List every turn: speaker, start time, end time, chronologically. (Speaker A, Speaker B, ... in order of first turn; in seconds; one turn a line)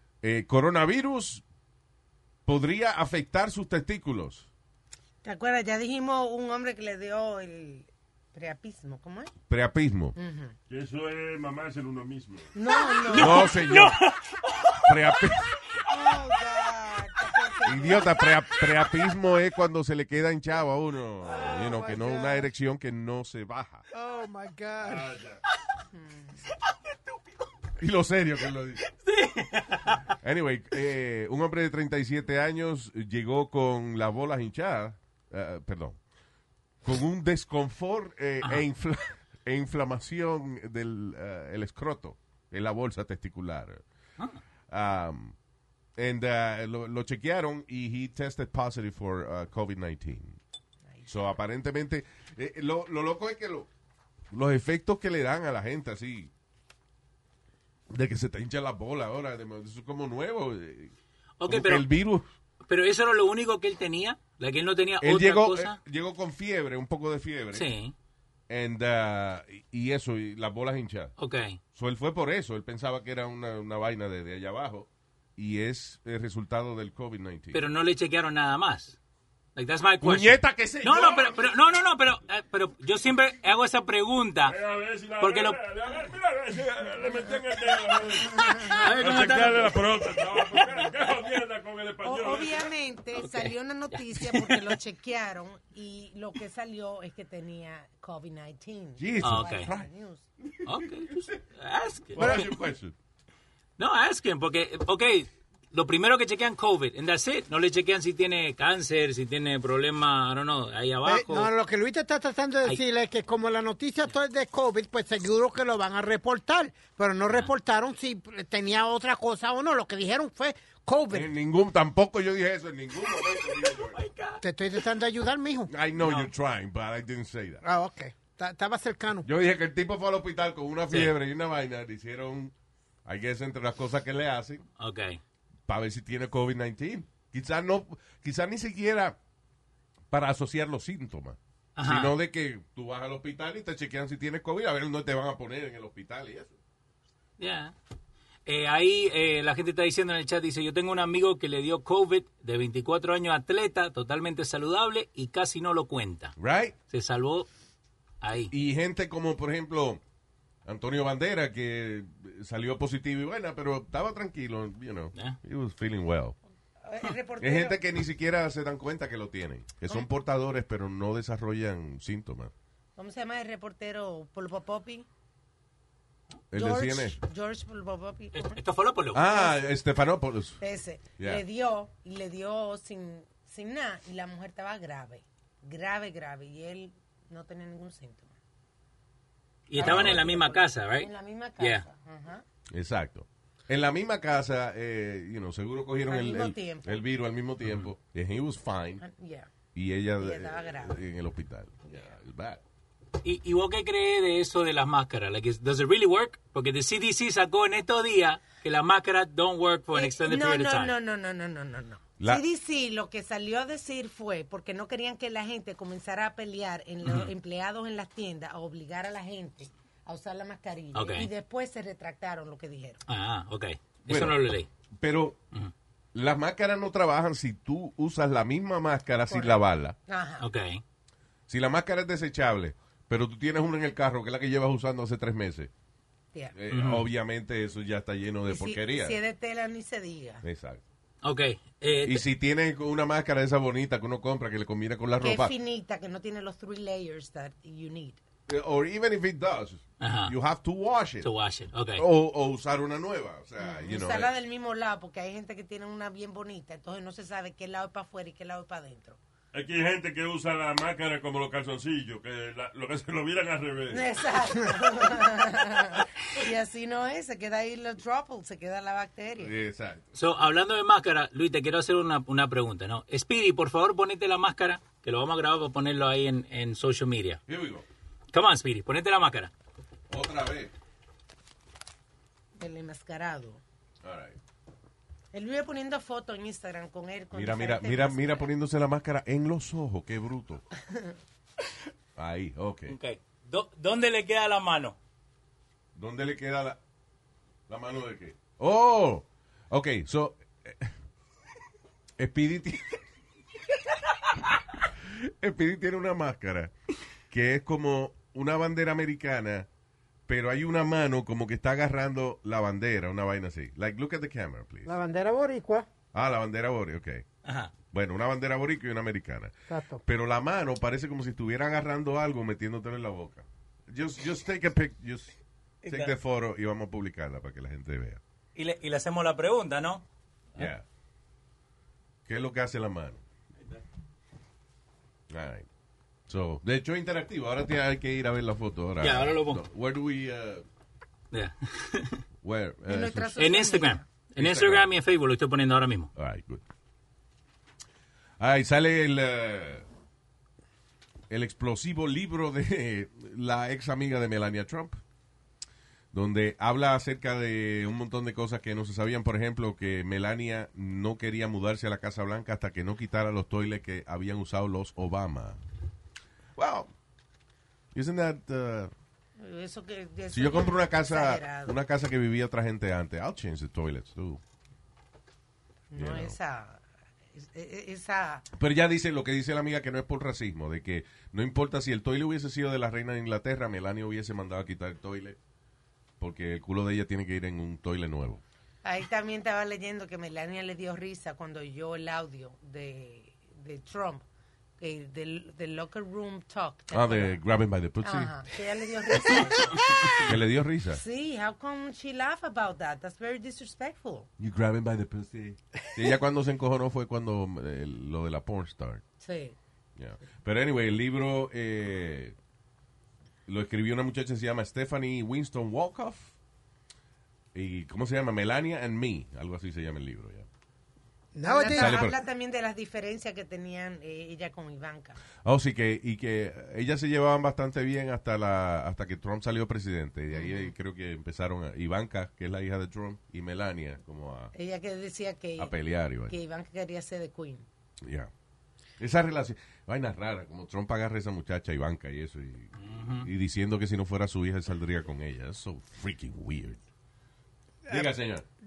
Speaker A: 0.2-1.4
Speaker A: 2.5-4.5
Speaker B: 5.2-9.3
Speaker A: 9.5-10.2
Speaker B: 10.2-10.6
Speaker C: 10.7-12.5
Speaker B: 12.5-13.6
Speaker D: 12.8-15.4
Speaker A: 13.1-14.0
Speaker A: 14.8-15.5
Speaker B: 15.9-18.3
Speaker E: 15.9-17.0
Speaker A: 17.7-23.9
Speaker E: 21.3-22.5
Speaker E: 23.9-25.2
Speaker C: 24.8-25.4
Speaker B: 25.9-26.4
Speaker A: 27.8-28.9
Speaker D: 28.9-30.1
Speaker A: 30.2-36.0
Speaker A: 36.8-43.8
Speaker A: 44.7-45.4
Speaker A: 46.0-50.4
Speaker A: 51.1-53.7
Speaker A: 54.3-56.3
Speaker A: 57.9-60.9
Speaker D: 61.4-61.9
Speaker A: 61.5-62.3
Speaker D: 62.7-65.8
Speaker A: 65.0-67.7
Speaker D: 67.5-67.9
Speaker A: 68.5-71.1
Speaker D: 71.2-71.6
Speaker A: 71.8-77.7
Speaker D: 77.5-79.0
Speaker D: 79.6-84.6
Speaker A: 80.0-81.4
Speaker C: 84.5-92.7
Speaker D: 85.2-85.6
Speaker D: 88.7-90.6
Speaker B: 92.0-100.2
Speaker D: 93.2-94.8
Speaker A: 99.0-99.9
Speaker D: 99.2-99.7
Speaker A: 100.4-100.8
Speaker D: 100.7-102.5
Speaker A: 102.2-103.0
Speaker E: 102.2-102.5
Speaker D: 103.8-111.5
Speaker E: 111.0-121.3
Speaker A: 121.1-124.0
Speaker D: 123.8-124.4
Speaker E: 124.4-125.7
Speaker A: 125.7-127.6
Speaker D: 126.0-126.3
Speaker E: 127.6-129.3
Speaker A: 129.2-132.5
Speaker A: 133.1-134.6
Speaker D: 134.8-135.2
Speaker A: 135.7-139.2
Speaker A: 140.1-146.5
Speaker D: 141.8-142.2
Speaker D: 147.4-147.7
Speaker D: 148.5-156.4
Speaker A: 156.4-156.8
Speaker D: 156.9-157.5
Speaker D: 158.2-158.5
Speaker A: 158.5-160.0
Speaker A: 160.7-166.4
Speaker B: 166.8-167.8
Speaker A: 167.4-172.5
Speaker B: 173.0-175.1
Speaker A: 176.5-177.2
Speaker B: 176.6-178.6
Speaker D: 178.3-179.3
Speaker A: 179.1-180.6
Speaker B: 179.2-179.6
Speaker B: 180.6-188.3
Speaker D: 189.7-191.8
Speaker B: 189.8-192.4
Speaker A: 189.8-190.2
Speaker A: 192.7-199.0
Speaker B: 196.1-197.0
Speaker B: 199.0-199.5
Speaker A: 199.8-202.6
Speaker B: 200.2-201.0
Speaker D: 203.2-210.9
Speaker B: 209.9-223.0
Speaker D: 217.0-217.3
Speaker D: 220.9-221.3
Speaker D: 223.1-224.7
Speaker A: 224.1-224.4
Speaker A: 225.0-225.4
Speaker A: 226.1-230.0
Speaker B: 229.3-230.5
Speaker D: 230.4-230.8
Speaker A: 231.5-235.7
Speaker A: 236.6-239.2
Speaker D: 236.7-237.0
Speaker B: 238.5-240.4
Speaker A: 240.4-240.8
Speaker D: 241.2-242.2
Speaker A: 242.0-245.5
Speaker B: 245.2-248.2
Speaker A: 248.5-251.3
Speaker D: 250.0-250.3
Speaker D: 251.2-252.1
Speaker A: 252.0-254.3
Speaker B: 253.6-259.2
Speaker C: 259.5-264.1
Speaker B: 263.9-269.5
Speaker A: 269.4-270.1
Speaker D: 270.1-277.4
Speaker A: 277.5-277.9
Speaker D: 278.3-279.5
Speaker A: 280.1-280.7
Speaker B: 282.6-283.6
Speaker A: 284.0-284.4
Speaker B: 285.3-288.5
Speaker A: 287.3-290.6
Speaker A: 292.2-293.0
Speaker D: 292.9-295.0
Speaker A: 295.9-296.8
Speaker A: 297.7-300.9
Speaker A: 302.2-303.0
Speaker A: 305.1-306.7
Speaker A: 307.3-309.7
Speaker A: 310.3-314.9
Speaker E: 314.9-315.9
Speaker A: 316.1-317.2
Speaker D: 317.4-317.7
Speaker A: 317.9-319.5
Speaker E: 319.7-320.0
Speaker A: 320.0-325.3
Speaker D: 325.8-326.1
Speaker A: 325.9-328.2
Speaker D: 328.6-330.0
Speaker A: 330.6-330.9
Speaker A: 332.3-333.2
Speaker A: 335.3-335.7
Speaker A: 336.3-340.6
Speaker D: 339.0-339.6
Speaker D: 341.3-342.2
Speaker A: 342.4-343.4
Speaker B: 342.9-344.1
Speaker D: 343.4-346.1
Speaker A: 344.4-344.9
Speaker A: 346.2-346.6
Speaker A: 348.4-349.9
Speaker A: 351.3-355.0
Speaker A: 356.1-365.6
Speaker A: 366.6-366.9
Speaker A: 367.9-368.9
Speaker B: 369.4-371.8
Speaker A: 370.3-374.4
Speaker B: 375.9-376.8
Speaker A: 375.9-376.4
Speaker B: 377.3-378.5
Speaker A: 378.5-385.4
Speaker A: 386.2-388.4
Speaker B: 388.8-394.2
Speaker B: 394.8-397.4
Speaker A: 396.9-398.4
Speaker B: 398.0-399.8
Speaker A: 400.2-401.0
Speaker B: 400.9-404.3
Speaker A: 404.4-409.0
Speaker B: 409.2-409.6
Speaker A: 410.0-412.4
Speaker A: 413.5-416.3
Speaker A: 417.5-420.5
Speaker E: 421.3-422.0
Speaker B: 421.5-425.2
Speaker A: 421.7-422.2
Speaker A: 425.4-434.5
Speaker B: 434.5-435.7
Speaker A: 435.6-436.4
Speaker B: 436.2-437.7
Speaker A: 438.0-438.3
Speaker A: 439.0-446.8
Speaker D: 442.8-443.3
Speaker A: 447.9-448.4